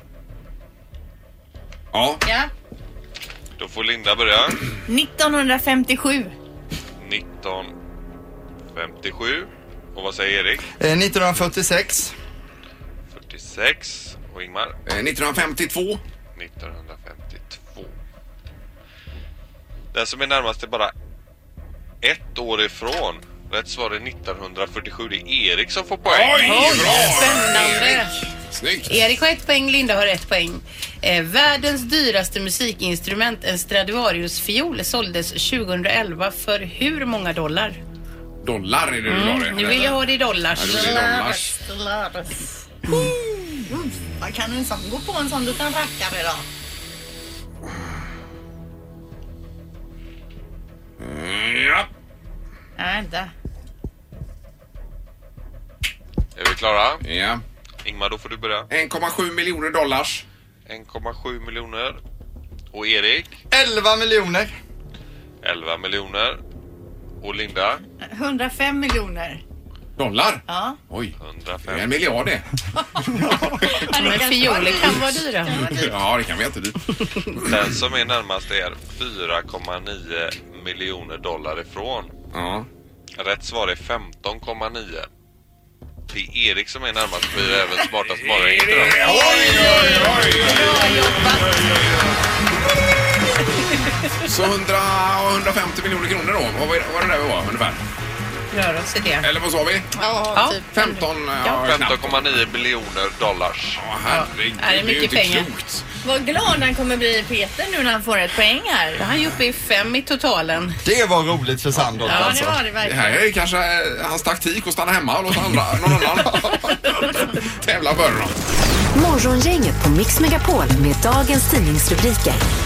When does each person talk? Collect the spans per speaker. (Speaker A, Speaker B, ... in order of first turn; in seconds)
Speaker A: 1.9-2.2, 14.9-16.0, 26.0-29.0, 38.4-40.0, 40.5-41.5, 51.0-51.9, 57.0-57.4, 58.7-60.2, 70.0-71.2, 71.7-72.4, 73.1-73.7, 75.6-77.0, 82.3-82.7, 88.2-91.9, 94.2-97.8, 99.2-99.9, 100.7-102.3, 103.8-105.8, 112.8-118.4
Speaker B: 2.2-2.5, 4.9-6.3, 26.5-28.1, 40.6-46.4, 52.8-53.3, 68.0-69.4, 70.5-70.8, 72.8-75.9, 88.9-91.5, 100.0-101.0, 106.0-109.0, 112.0-113.2
Speaker C: 3.6-4.6, 7.0-7.7, 8.7-10.6, 13.1-14.7, 16.3-17.9, 19.9-20.9, 22.0-27.1, 56.4-57.0, 57.8-58.7, 60.7-62.0, 62.7-63.4, 65.4-66.4, 67.2-67.8, 71.2-72.1, 77.4-82.1, 83.2-85.1, 86.1-89.7, 101.5-103.8
Speaker D: 10.8-12.1, 63.5-64.5, 110.8-112.6
Speaker E: 26.5-28.0, 28.9-37.8, 39.1-40.9, 73.9-75.6, 98.5-99.2, 100.3-100.6, 104.1-105.5, 109.0-110.8, 112.0-112.4
Speaker F: 118.9-122.4